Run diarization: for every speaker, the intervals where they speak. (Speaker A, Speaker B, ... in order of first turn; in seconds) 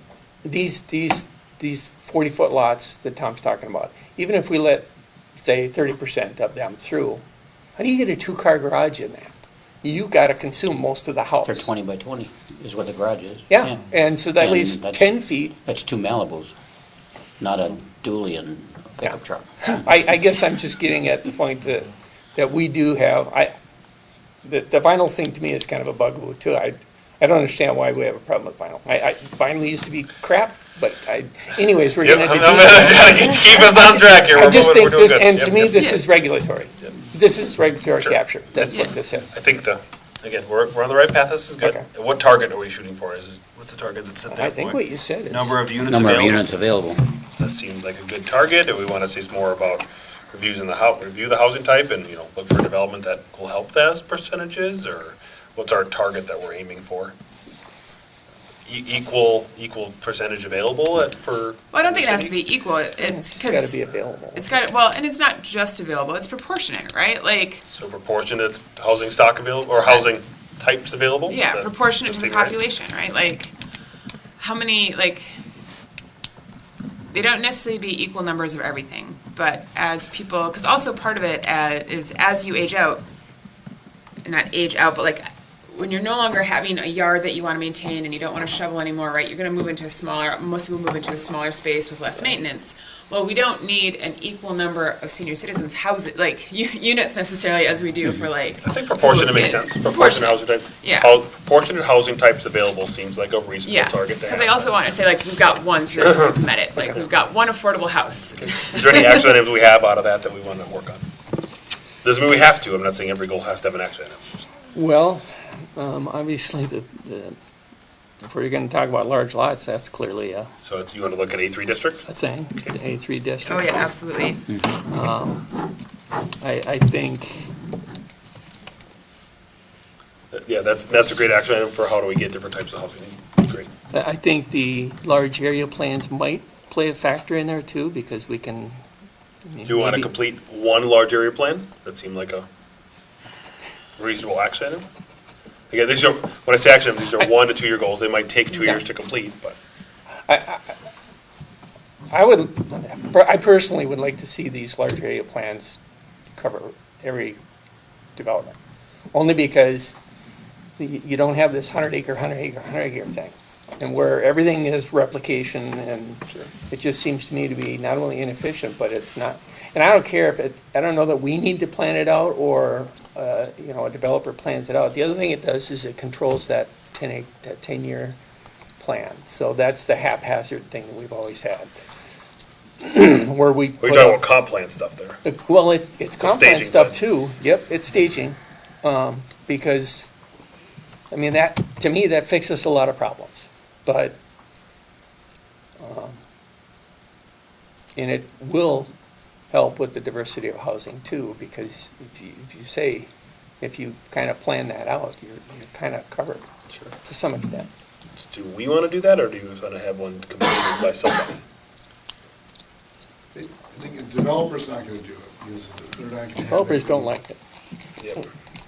Speaker A: 0.5-7.2, 7.8-11.7, 13.5-15.6, 19.1-23.5, 24.4-33.7, 34.2-39.3, 44.3-45.6, 63.0-64.5, 114.7-115.2, 115.8-117.4, 118.2-120.5, 122.1-123.9, 124.7-125.5, 126.4-127.5, 133.9-138.8, 139.5-140.1, 148.6-148.8, 150.3-150.8, 152.1-155.8, 156.4-157.4, 158.2-158.6, 159.1-159.9, 160.8-178.2, 178.8-181.7, 182.8-184.3, 185.2-190.1, 191.1-194.2, 195.8-196.2, 198.0-198.9, 199.5-206.5, 207.0-207.7, 216.5-217.4
Speaker B: 11.4-16.5, 17.4-19.9, 45.9-47.0
Speaker C: 32.0-36.0, 38.0-46.6, 47.3-57.1, 58.7-62.4, 67.7-72.6, 98.6-104.9, 108.4-111.1, 112.0-114.5, 120.7-122.1, 130.3-133.7, 139.7-142.5, 144.0-144.9, 145.7-149.6, 183.8-185.2, 186.2-187.0, 208.2-211.4, 218.0-218.3
Speaker D: 61.7-67.7, 71.3-73.5, 74.4-75.3, 77.1-83.0, 84.2-101.2, 103.7-109.2, 123.5-124.5
Speaker E: 213.3-217.1